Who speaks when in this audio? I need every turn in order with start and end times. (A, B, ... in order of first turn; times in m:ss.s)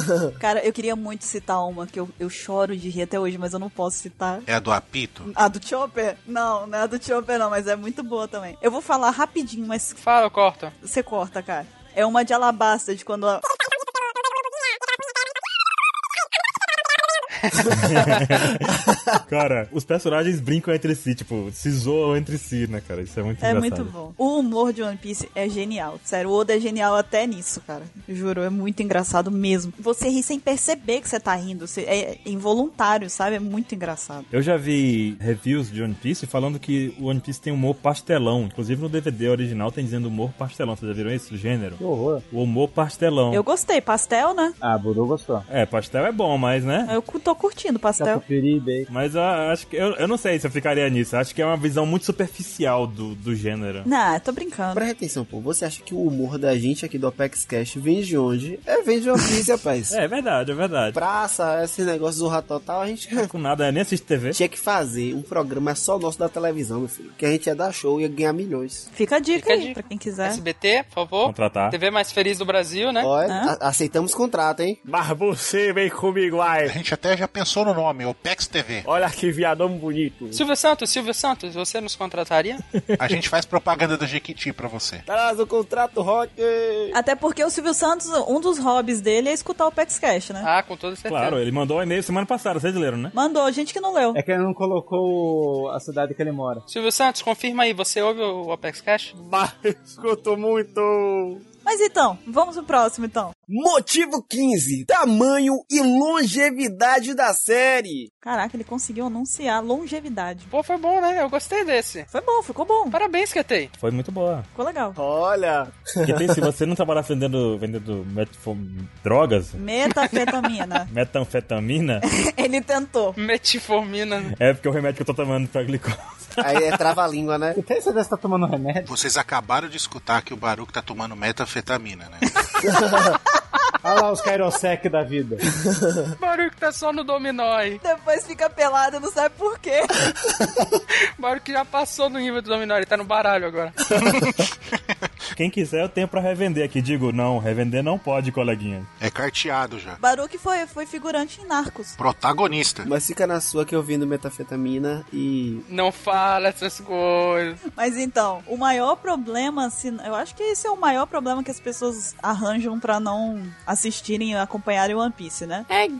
0:00.4-0:04.5 A
0:04.5-0:05.3 B
0:05.3-0:10.0 A
0:10.0-0:10.7 C
0:10.8-0:13.4 A
0:17.4-0:18.0 C
0:17.7-0:23.9 D
0:23.4-0:34.3 A
0:34.3-0:41.8 D
0:41.8-0:42.2 E
0:42.3-0:43.4 D
0:43.3-0:44.6 A
0:44.6-0:45.5 E
0:45.5-0:47.0 D
0:46.9-0:48.2 A
0:48.0-0:48.9 E
0:48.9-0:53.9 D
0:53.8-0:54.8 A
0:54.7-1:00.0 F
0:59.9-1:01.0 D
1:01.0-1:03.3 F
1:03.2-1:04.4 D
1:04.3-1:08.9 F
1:08.9-1:10.4 A
1:09.4-1:13.1 C
1:11.2-1:11.8 D
1:13.0-1:14.9 F
1:13.2-1:13.5 A
1:14.9-1:16.7 G
1:16.6-1:18.9 B
1:19.0-1:20.4 G
1:19.7-1:20.2 F
1:20.3-1:22.6 C
1:22.8-1:23.2 D
1:23.0-1:25.0 B
1:25.1-1:27.0 F
1:26.9-1:30.5 A
1:30.4-1:31.4 C
1:31.1-1:33.2 D
1:33.1-1:34.2 A
1:34.1-1:36.6 E
1:36.7-1:39.1 C
1:39.2-1:41.4 G
1:41.6-1:43.3 A
1:43.5-1:48.1 F
1:48.2-1:50.5 A
1:50.5-1:52.1 C
1:52.1-1:53.0 A
1:52.9-1:53.7 C
1:53.8-1:54.5 D
1:54.6-1:55.0 A
1:55.0-1:56.4 F
1:56.0-1:59.6 D
1:59.6-2:00.9 A
2:00.1-2:00.4 C
2:00.9-2:02.0 D
2:02.2-2:03.2 A
2:03.2-2:04.4 C
2:04.3-2:06.8 D
2:06.4-2:07.6 F
2:07.5-2:08.9 E
2:08.8-2:12.3 B
2:12.7-2:13.1 F
2:13.8-2:15.4 E
2:16.2-2:17.8 C
2:17.8-2:20.1 A
2:21.2-2:23.8 C
2:23.9-2:25.1 B
2:25.4-2:28.9 D
2:29.0-2:30.0 B
2:30.0-2:32.0 A
2:32.0-2:32.9 B
2:32.8-2:35.7 F
2:35.7-2:37.6 C
2:37.7-2:45.7 A